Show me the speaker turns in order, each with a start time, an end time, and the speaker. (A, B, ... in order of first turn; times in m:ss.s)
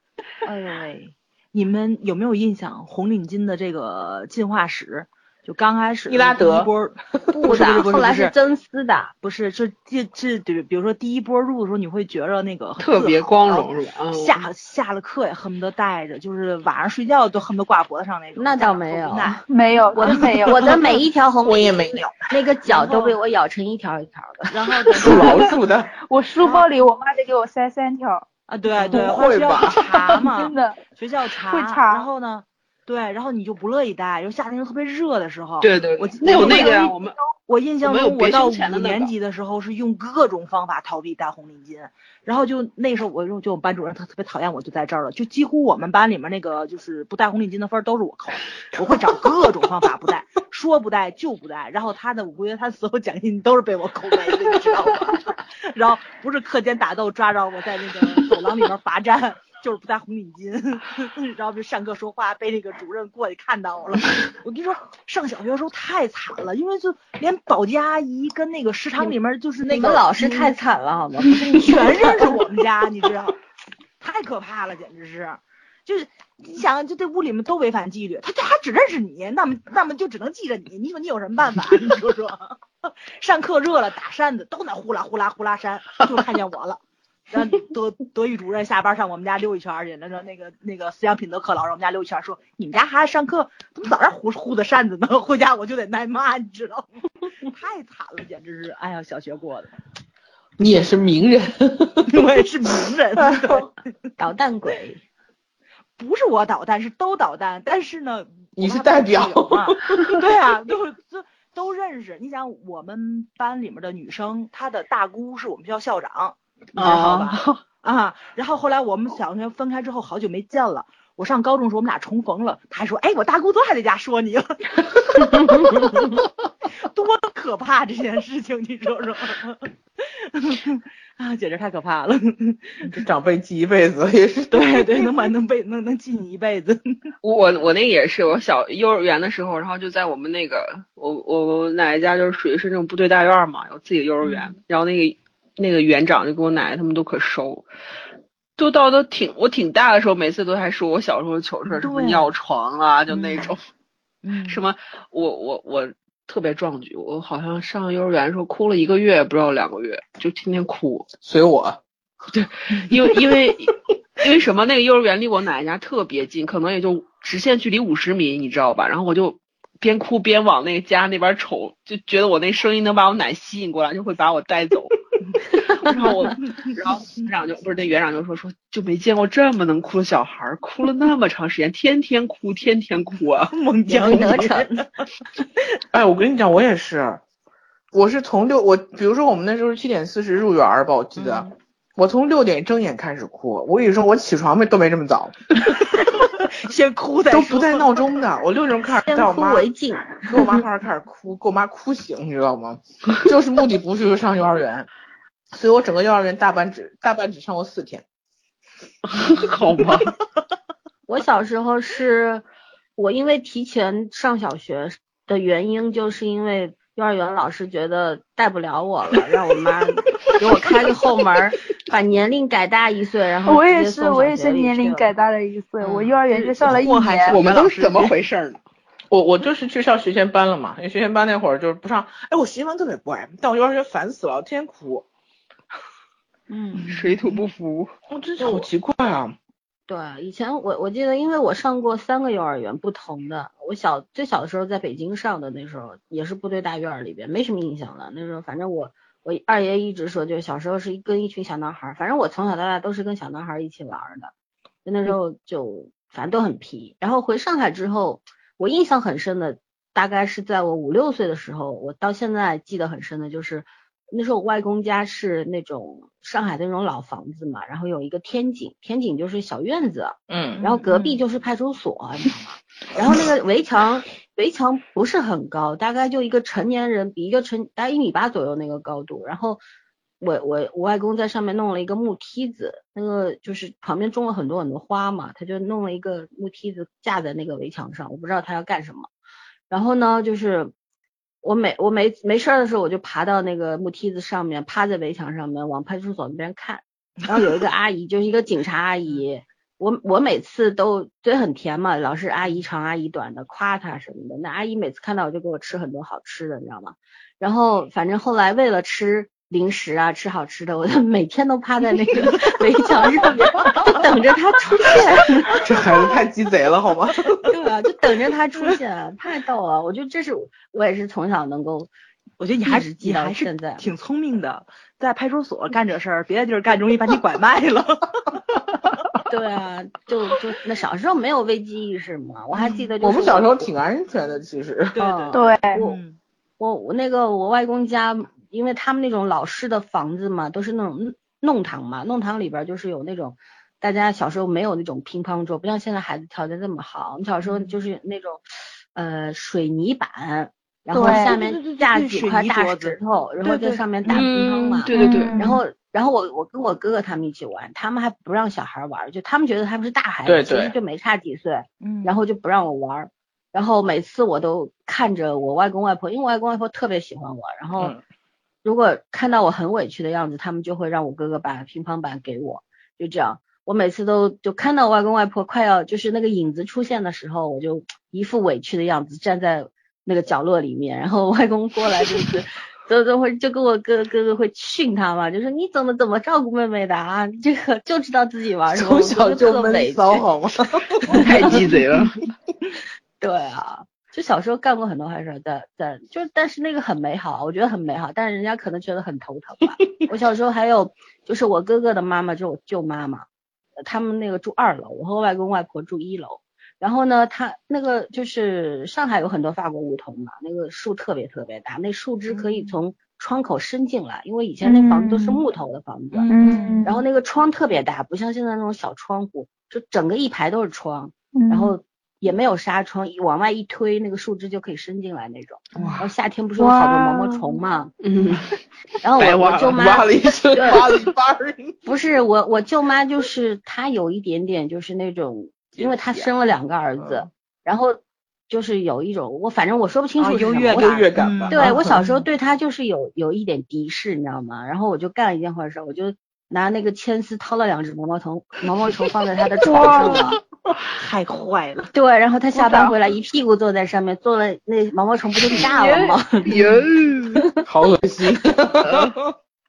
0:00.4-0:08.3 A
0:06.1-0:06.7 B
0:07.3-0:09.1 C
0:09.2-0:19.4 A
0:12.8-0:14.5 D
0:18.4-0:19.4 C
0:19.5-0:21.0 E
0:19.9-0:25.3 C
0:20.0-0:20.7 A
0:21.4-0:22.2 B
0:22.6-0:23.2 A
0:24.5-0:25.5 A
0:25.0-0:25.9 B
0:25.0-0:28.2 E
0:26.4-0:26.7 A
0:28.5-0:36.9 A
0:28.9-0:29.7 B
0:29.1-0:29.8 D
0:30.1-0:30.8 E
0:31.5-0:32.1 E
0:35.6-0:37.2 D
0:36.4-0:36.7 E
0:37.5-1:10.5 A
0:37.8-0:39.1 D
1:09.7-1:12.3 C
1:11.3-1:13.4 A
1:14.0-1:36.9 A
1:37.4-1:39.7 A
1:40.6-1:42.2 B
1:42.1-1:43.7 A
1:43.2-1:43.6 B
1:44.2-1:45.0 C
1:46.0-2:04.5 A
1:48.6-1:50.2 B
1:56.8-1:57.6 D
2:05.2-2:13.0 A
2:12.8-2:15.1 B
2:14.5-2:17.0 A
2:17.2-2:27.7 D
2:24.2-2:24.5 A
2:28.6-2:33.6 D
2:31.7-2:32.3 A
2:33.1-2:33.5 A
2:34.2-2:34.6 A
2:34.5-2:41.1 D
2:41.2-2:41.8 B
2:42.3-2:55.0 D
2:55.5-3:03.5 D
3:03.5-3:04.9 A
3:03.9-3:04.8 C
3:05.9-3:07.2 B
3:07.9-3:16.0 B
3:11.2-3:11.4 A
3:15.7-3:18.0 A
3:17.3-3:19.7 B
3:18.9-3:20.6 C
3:20.2-3:24.9 B
3:25.5-3:28.0 B
3:29.1-3:30.1 D
3:31.1-3:45.1 C
3:43.4-3:47.4 E
3:45.8-3:46.2 D
3:46.3-3:48.2 A
3:47.3-3:48.6 D
3:49.1-3:55.0 B
3:56.5-3:57.0 C
3:56.9-3:57.9 D
3:58.1-3:59.4 B
3:58.4-3:58.7 C
3:59.9-4:14.3 C
4:14.8-4:39.6 C
4:30.3-4:30.6 B
4:30.5-4:31.2 A
4:40.2-4:49.1 C
4:49.7-4:50.7 C
4:51.4-5:15.6 C
5:15.5-5:17.4 B
5:17.5-5:21.9 C
5:22.4-5:28.9 A
5:22.6-5:23.9 C
5:29.3-5:33.7 C
5:32.5-5:32.9 A
5:33.0-5:35.0 B
5:34.9-5:36.2 A
5:35.0-5:36.0 C
5:35.3-5:35.8 E
5:36.6-5:48.4 C
5:47.4-5:47.8 A
5:48.9-6:07.9 C
5:50.9-5:54.2 A
5:50.9-5:51.3 E
5:54.1-5:55.4 D
5:54.9-5:55.6 E
5:55.0-5:55.4 A
6:00.2-6:00.7 B
6:01.8-6:02.2 A
6:08.6-6:30.3 C
6:28.7-6:31.3 B
6:31.1-6:31.6 C
6:31.1-6:32.2 D
6:33.2-6:43.2 C
6:43.8-7:07.9 C
6:52.3-6:52.8 A
6:54.6-6:55.4 E
6:56.1-6:56.9 A
6:56.3-6:57.0 E
7:01.3-7:01.8 E
7:05.7-7:06.1 A
7:06.6-7:07.6 E
7:08.0-7:08.5 D
7:09.0-7:10.9 C
7:09.2-7:09.8 D
7:09.3-7:11.8 B
7:11.8-7:30.4 C
7:17.0-7:17.2 B
7:20.2-7:22.2 A
7:20.7-7:21.8 B
7:29.6-7:30.4 E
7:30.9-7:31.9 A
7:31.9-7:36.6 C
7:32.5-7:32.9 E
7:35.6-7:36.2 E
7:36.4-7:37.4 D
7:37.3-7:37.6 C
7:37.6-7:39.2 B
7:38.8-7:39.2 D